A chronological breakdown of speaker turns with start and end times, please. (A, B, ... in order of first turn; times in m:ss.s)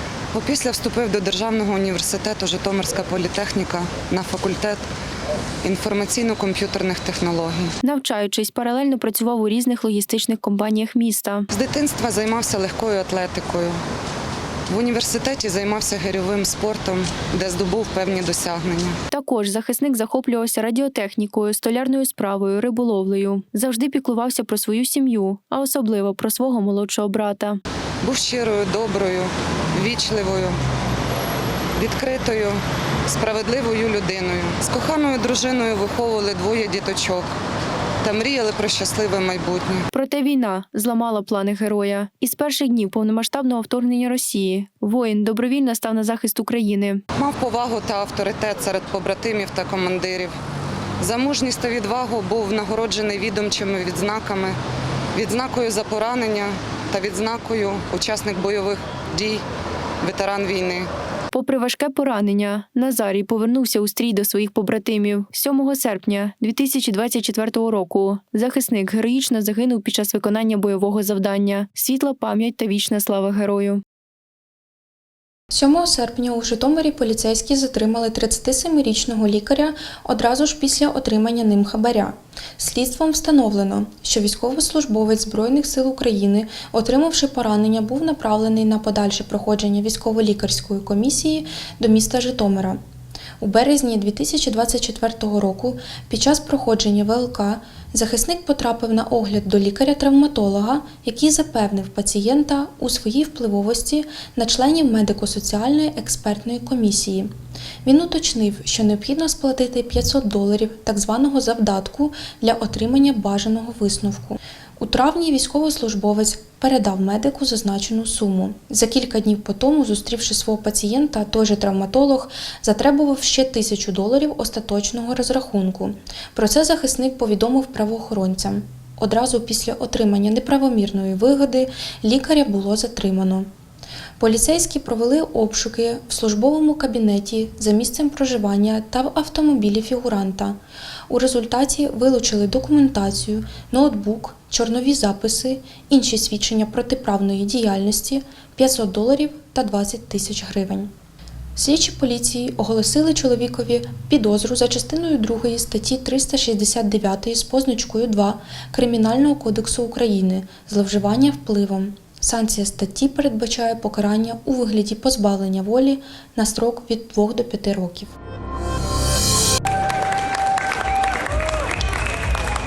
0:00.3-0:04.8 A
0:05.6-0:07.7 A
0:07.8-0:11.5 B
0:11.5-0:13.8 A
0:14.7-0:19.0 A
0:19.1-0:27.6 B
0:28.0-0:30.6 A
0:31.8-0:37.3 A
0:38.0-0:39.8 A
0:39.9-0:47.0 B
0:47.2-0:50.4 A
0:51.0-0:54.6 A
0:55.2-0:59.4 A
1:00.0-1:00.9 A
1:01.3-1:13.8 B
1:15.5-1:32.8 C
1:33.4-1:47.3 C
1:47.8-2:13.5 C
2:14.2-2:20.6 C
2:21.1-2:30.9 C
2:31.6-2:48.1 C